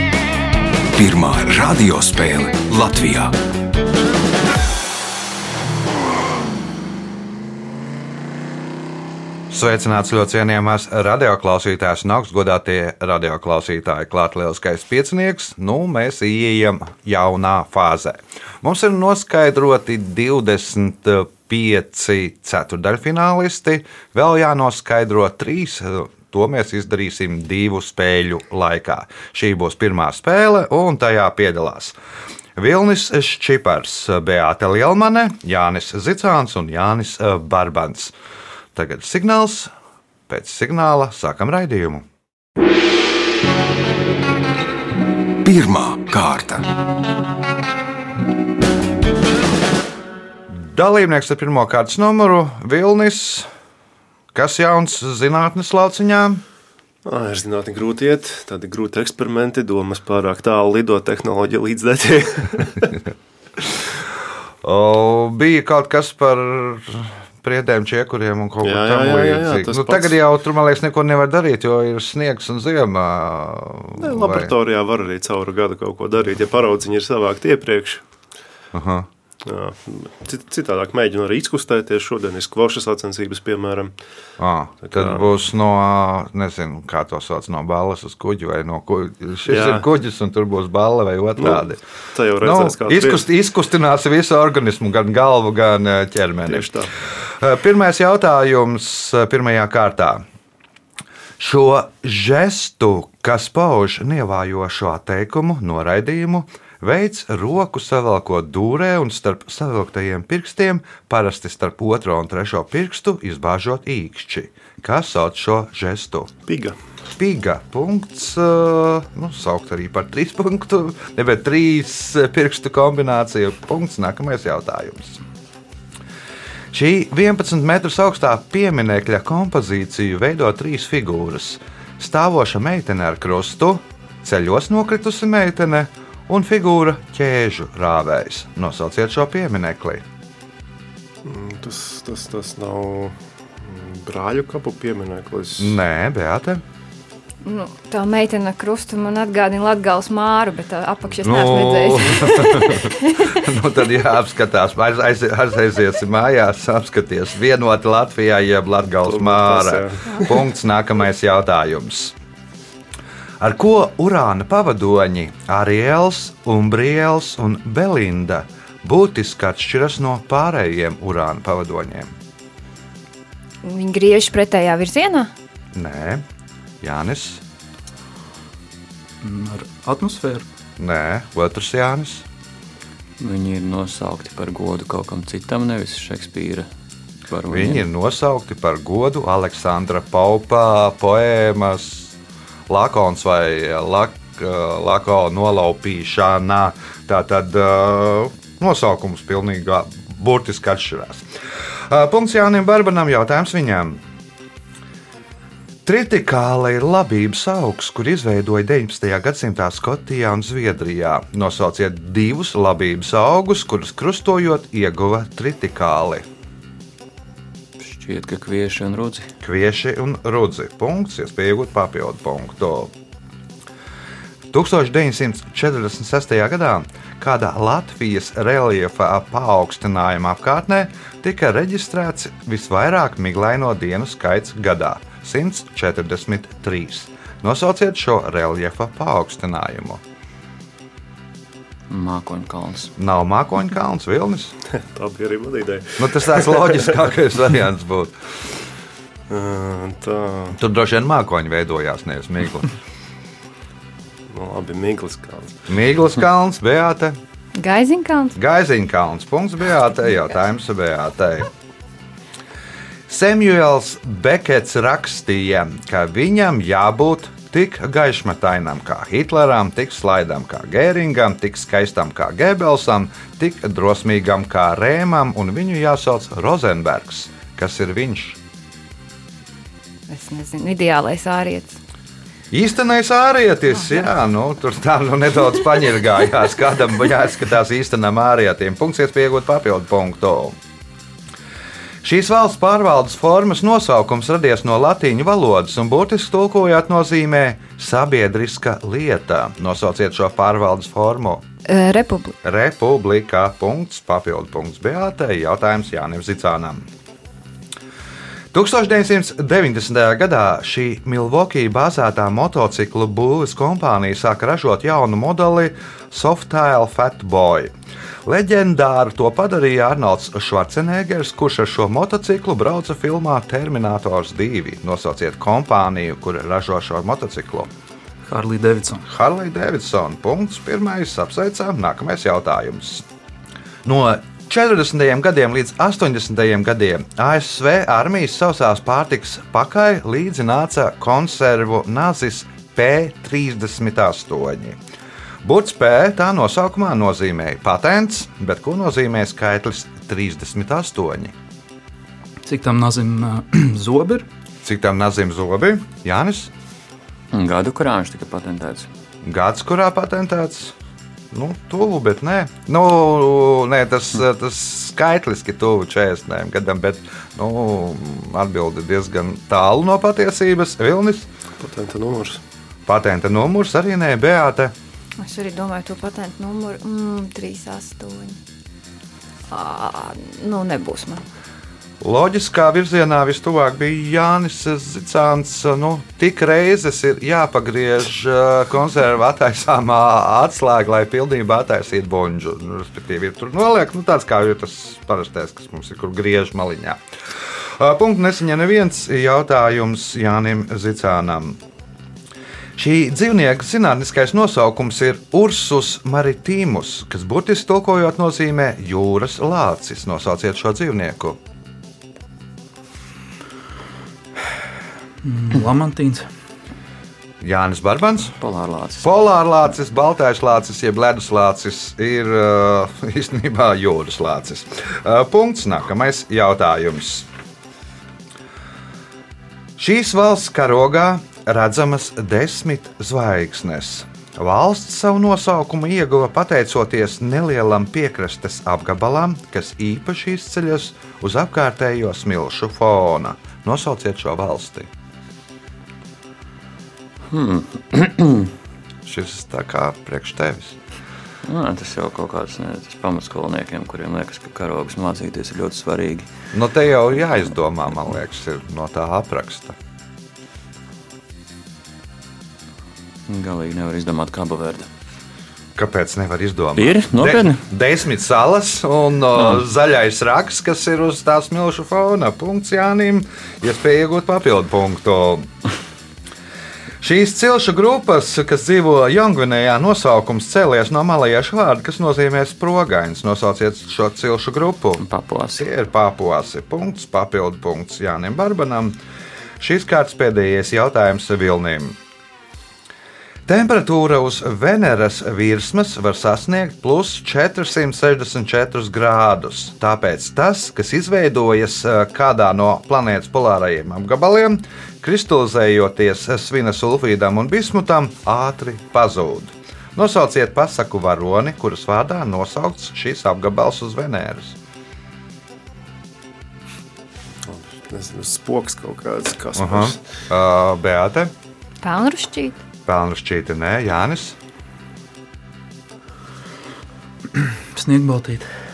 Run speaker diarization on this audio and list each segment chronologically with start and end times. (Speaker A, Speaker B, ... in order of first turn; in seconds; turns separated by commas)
Speaker A: 0.9-3.4, Speaker B: 9.5-32.0, Speaker B: 32.6-38.1, Speaker B: 38.8-39.7, Speaker B: 40.3-42.1, Speaker A: 45.4-46.7, Speaker B: 50.5-53.5, Speaker B: 54.3-56.4, Speaker C: 57.0-63.0, Speaker B: 64.6-74.5, Speaker C: 68.6-70.2, Speaker C: 74.0-78.0, Speaker B: 78.7-79.1, Speaker C: 79.4-83.9, Speaker B: 84.4-91.8, Speaker C: 84.8-85.3, Speaker C: 89.5-89.8, Speaker C: 91.4-93.2, Speaker B: 92.4-100.2, Speaker C: 96.5-96.9, Speaker B: 101.4-116.3, Speaker C: 116.5-116.8, Speaker B: 117.2-125.2, Speaker B: 126.7-140.0, Speaker C: 141.2-145.8, Speaker B: 145.6-146.6, Speaker D: 147.4-153.4, Speaker B: 151.2-162.2, Speaker C: 159.1-160.4, Speaker B: 163.4-172.1, Speaker D: 173.6-175.3, Speaker B: 175.8-176.2, Speaker B: 176.8-177.4, Speaker E: 179.2-180.4, Speaker B: 180.8-182.2, Speaker F: 183.2-186.7, Speaker F: 187.3-187.9, Speaker B: 187.5-192.2, Speaker B: 192.7-201.3, Speaker B: 201.9-204.0, Speaker B: 205.8-216.2, Speaker F: 217.8-219.3, Speaker B: 219.4-222.9, Speaker B: 224.5-240.0, Speaker F: 241.9-242.9, Speaker B: 243.0-244.5, Speaker C: 244.7-246.8, Speaker B: 246.0-248.2, Speaker C: 249.3-250.6, Speaker B: 250.5-252.7, Speaker C: 254.3-255.7, Speaker B: 255.7-257.2, Speaker D: 257.6-258.4, Speaker B: 258.4-261.5, Speaker B: 263.1-278.4, Speaker D: 280.1-281.8, Speaker B: 282.5-290.6, Speaker B: 292.0-301.4, Speaker D: 301.7-302.4, Speaker B: 302.4-306.9, Speaker B: 308.5-317.7, Speaker B: 318.3-327.7, Speaker E: 328.3-329.1, Speaker B: 329.1-333.1, Speaker B: 333.8-344.8, Speaker B: 345.4-351.3, Speaker E: 352.4-354.3, Speaker B: 354.6-356.5, Speaker F: 357.3-358.9, Speaker B: 359.2-360.8, Speaker B: 361.3-371.3, Speaker C: 371.6-372.4, Speaker B: 372.9-374.7, Speaker D: 375.2-378.4, Speaker D: 379.5-381.3, Speaker B: 382.0-397.0, Speaker B: 397.7-401.6, Speaker B: 402.8-411.4, Speaker E: 415.2-416.3, Speaker B: 417.4-418.4, Speaker F: 418.4-419.1, Speaker B: 419.0-427.3, Speaker B: 429.8-444.9, Speaker F: 447.3-448.5, Speaker B: 449.1-450.8, Speaker F: 451.4-456.3, Speaker B: 456.5-459.8, Speaker F: 463.3-464.9, Speaker B: 465.8-475.5, Speaker F: 466.8-467.6, Speaker B: 477.0-489.0, Speaker F: 485.0-485.7, Speaker B: 489.6-492.0, Speaker B: 493.5-514.6, Speaker C: 517.5-520.0, Speaker B: 519.6-521.3, Speaker D: 521.8-522.6, Speaker B: 522.9-524.4, Speaker E: 527.3-528.5